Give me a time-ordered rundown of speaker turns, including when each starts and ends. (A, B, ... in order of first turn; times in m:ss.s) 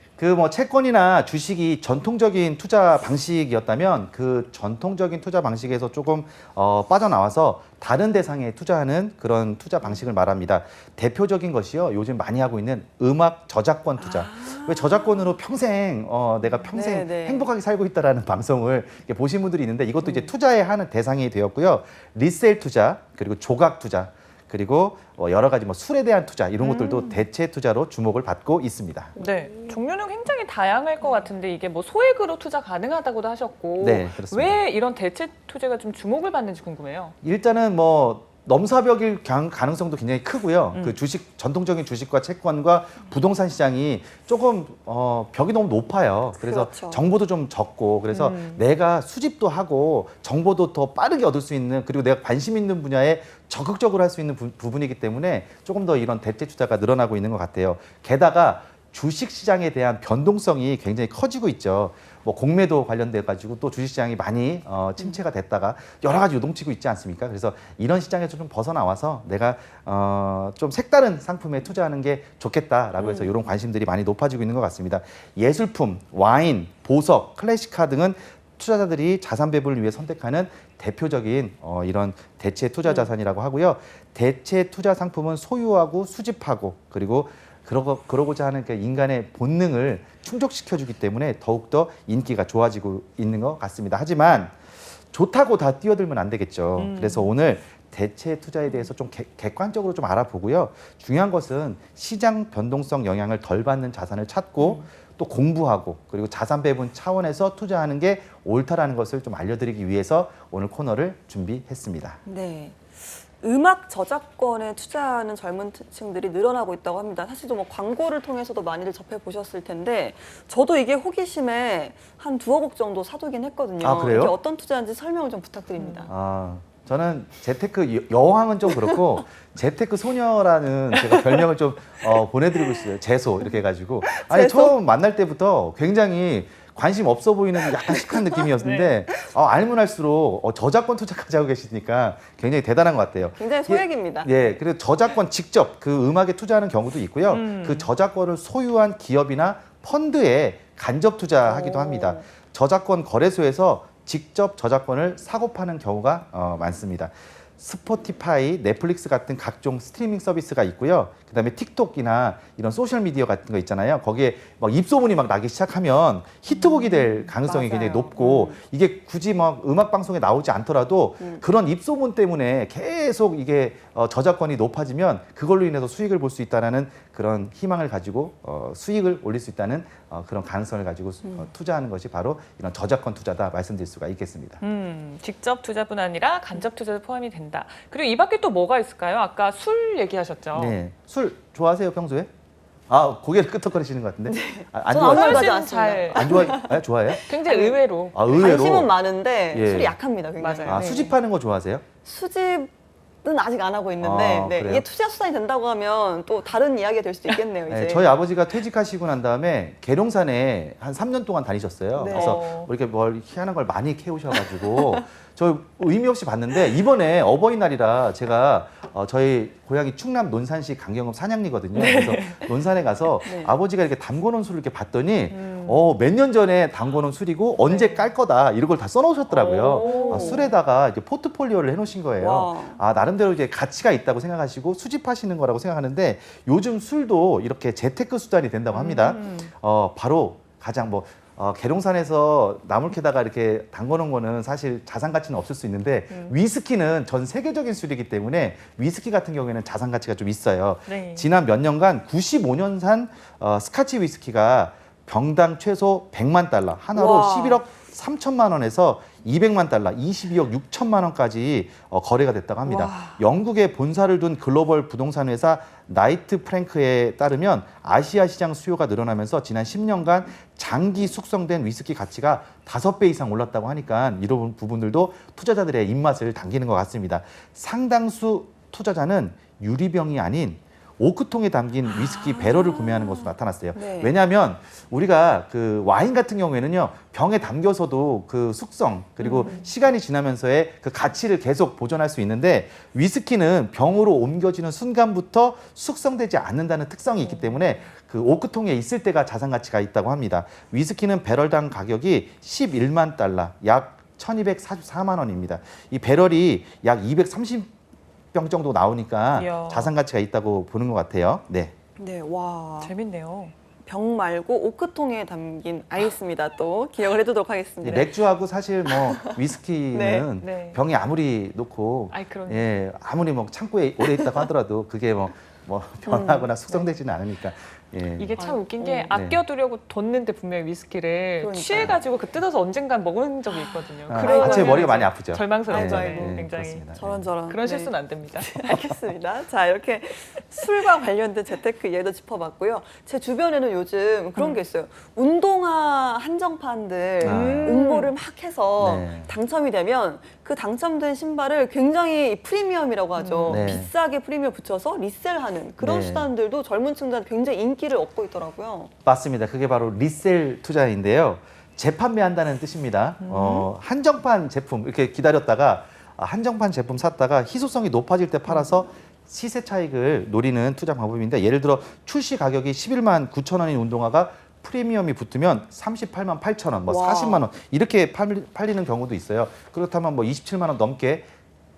0:00.2-0:29.2 A
0:14.0-0:15.3 B
0:16.7-0:17.5 B
0:26.6-0:27.2 C
0:29.2-0:37.2 C
0:33.8-0:34.6 A
0:37.2-1:34.6 A
0:46.4-0:47.0 B
0:48.1-0:48.6 C
1:13.0-1:13.3 B
1:35.1-1:52.2 A
1:36.8-1:37.3 C
1:44.6-1:44.8 B
1:52.2-2:06.1 B
2:03.8-2:04.4 A
2:05.8-2:06.1 C
2:06.1-3:04.6 A
2:14.0-2:14.8 B
2:17.8-2:18.4 B
2:18.6-2:19.0 C
2:23.4-2:24.6 B
2:27.3-2:27.9 C
2:31.5-2:32.2 B
2:46.5-2:48.6 B
3:04.6-3:10.8 C
3:10.6-3:12.3 A
3:12.9-3:15.6 A
3:14.3-3:21.2 B
3:14.9-3:16.6 C
3:16.1-3:17.2 A
3:17.2-3:18.2 C
3:18.1-3:18.9 A
3:19.5-3:20.0 A
3:20.4-3:20.9 C
3:20.7-3:21.9 A
3:22.0-3:22.7 B
3:23.2-3:28.1 B
3:24.0-3:24.9 A
3:27.7-5:07.7 A
3:32.0-3:32.4 B
3:32.1-3:32.7 C
3:41.8-3:42.5 C
3:43.2-3:43.5 B
3:45.3-3:45.9 C
3:47.6-3:48.1 C
3:49.3-3:50.5 B
3:49.6-3:50.6 C
3:52.2-3:52.8 B
3:58.7-3:59.5 C
4:06.1-4:06.4 C
4:10.9-4:11.3 C
4:17.0-4:17.6 B
4:22.7-4:23.2 B
4:41.9-4:44.1 B
4:49.2-4:49.7 C
4:49.3-4:49.6 B
4:57.3-4:57.6 C
5:08.3-5:11.7 A
5:09.4-5:09.9 C
5:12.0-5:12.9 B
5:12.8-5:13.5 C
5:13.8-5:18.2 B
5:17.8-5:28.4 A
5:18.9-5:19.4 B
5:19.9-5:20.3 B
5:20.4-5:20.8 C
5:22.1-5:22.7 C
5:26.1-5:26.9 B
5:28.2-5:36.8 C
5:28.4-5:29.1 B
5:29.1-5:29.4 A
5:31.4-5:32.0 B
5:33.5-5:35.1 B
5:34.1-5:37.3 A
5:35.6-5:36.4 B
5:37.0-5:58.9 B
5:37.5-5:38.6 C
5:44.4-5:44.6 C
5:47.2-5:47.7 A
5:47.2-5:48.1 C
5:48.8-5:49.3 A
5:53.2-5:53.8 C
5:53.5-5:53.9 A
5:55.8-5:56.3 A
5:59.0-6:21.3 A
6:03.2-6:03.7 C
6:16.9-6:17.5 B